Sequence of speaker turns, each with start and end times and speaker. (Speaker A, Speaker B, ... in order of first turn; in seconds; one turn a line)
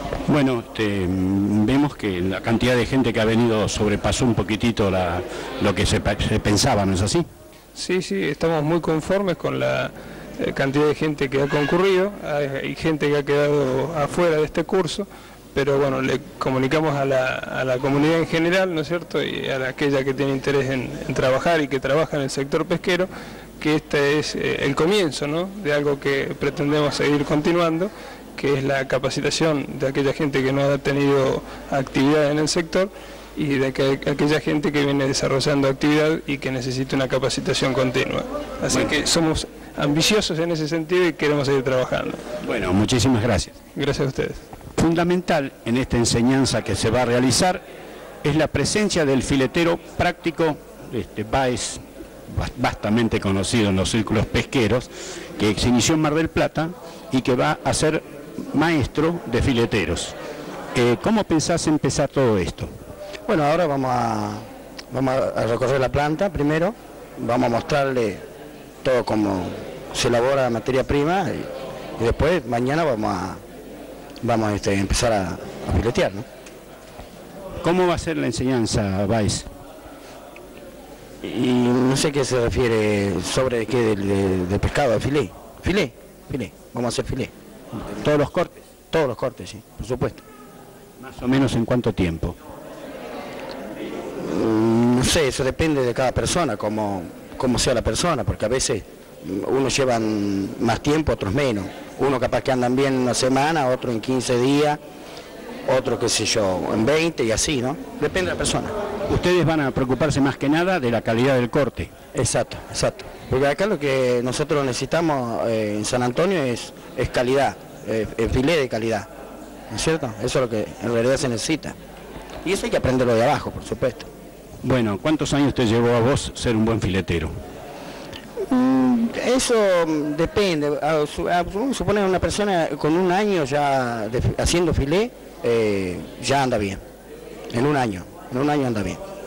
Speaker A: 0.3-7.3
Speaker B: 7.7-23.1
Speaker B: 23.6-42.2
Speaker A: 42.4-43.5
Speaker B: 43.7-44.4
Speaker A: 44.8-47.6
Speaker A: 48.2-60.1
Speaker A: 60.7-62.7
Speaker C: 63.3-68.2
Speaker C: 68.8-73.4
Speaker C: 74.2-76.2
Speaker A: 77.6-79.5
Speaker C: 81.2-87.3
Speaker A: 87.8-88.6
Speaker C: 88.9-90.2
Speaker A: 91.0-92.3
Speaker C: 94.2-104.8
Speaker C: 105.7-108.7
Speaker A: 109.1-112.0
Speaker C: 112.1-119.1
Speaker C: 119.7-121.8
Speaker C: 122.4-124.1
Speaker A: 124.6-127.3
Speaker C: 128.4-136.8
Speaker C: 137.5-139.0